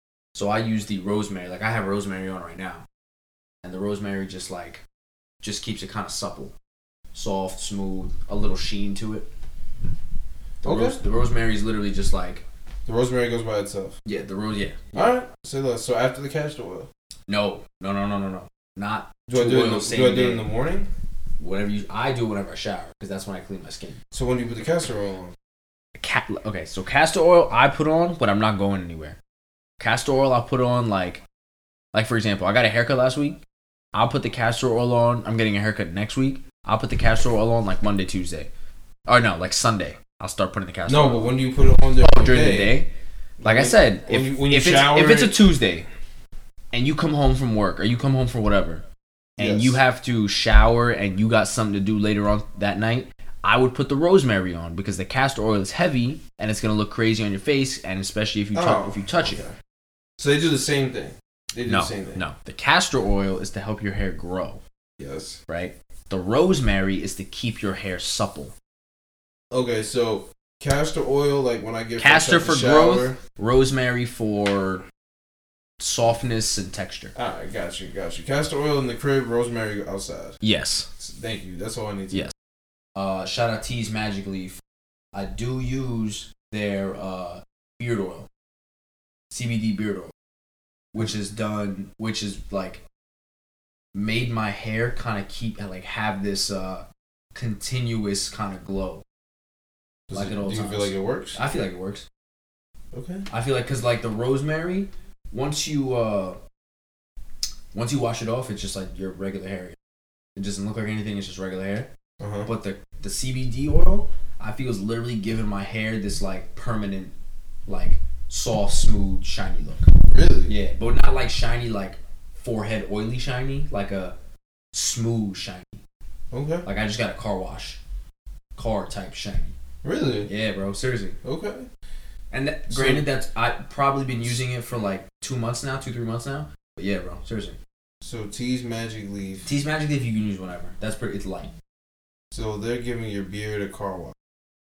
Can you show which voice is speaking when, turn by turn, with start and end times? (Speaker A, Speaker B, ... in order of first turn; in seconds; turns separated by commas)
Speaker A: 0.3-2.9, Speaker A: 3.6-4.8, Speaker A: 5.4-6.5, Speaker A: 7.1-9.3, Speaker A: 10.6-12.4, Speaker B: 10.6-11.0, Speaker B: 12.9-14.0, Speaker A: 14.1-15.1, Speaker B: 14.9-16.9, Speaker A: 17.3-20.5, Speaker B: 19.3-20.9, Speaker A: 21.4-24.0, Speaker B: 24.1-25.4, Speaker A: 26.0-29.2, Speaker A: 29.8-31.2, Speaker A: 31.9-33.4, Speaker A: 33.9-38.5, Speaker A: 39.1-41.4, Speaker B: 40.9-42.8, Speaker A: 42.0-42.9, Speaker B: 43.4-45.4, Speaker A: 43.4-45.9, Speaker A: 46.7-48.8, Speaker B: 49.4-49.8, Speaker A: 49.4-59.4, Speaker B: 58.5-59.5, Speaker B: 60.2-62.2, Speaker A: 61.7-64.6, Speaker B: 65.0-65.4, Speaker A: 65.5-68.5, Speaker B: 69.5-73.2, Speaker A: 72.0-74.8, Speaker A: 75.8-77.1, Speaker B: 77.2-80.4, Speaker A: 80.4-80.9, Speaker B: 81.0-82.3, Speaker A: 83.0-84.6, Speaker A: 85.1-88.3, Speaker A: 89.3-90.1, Speaker A: 90.9-92.8, Speaker A: 93.9-99.0, Speaker B: 100.1-101.4, Speaker A: 100.1-102.0, Speaker B: 102.9-103.2, Speaker A: 103.3-106.4, Speaker A: 107.7-109.8, Speaker A: 110.4-111.9, Speaker B: 112.2-112.5, Speaker A: 112.5-117.1, Speaker A: 117.7-119.9, Speaker B: 120.1-120.5, Speaker A: 120.5-124.2, Speaker A: 124.7-125.8, Speaker B: 126.3-126.7, Speaker A: 126.7-127.8, Speaker A: 128.6-129.6, Speaker B: 129.8-130.3, Speaker A: 130.3-131.2, Speaker B: 131.2-131.7, Speaker A: 132.3-137.6, Speaker B: 132.7-133.1, Speaker B: 138.0-139.5, Speaker A: 139.4-141.5, Speaker B: 142.3-144.2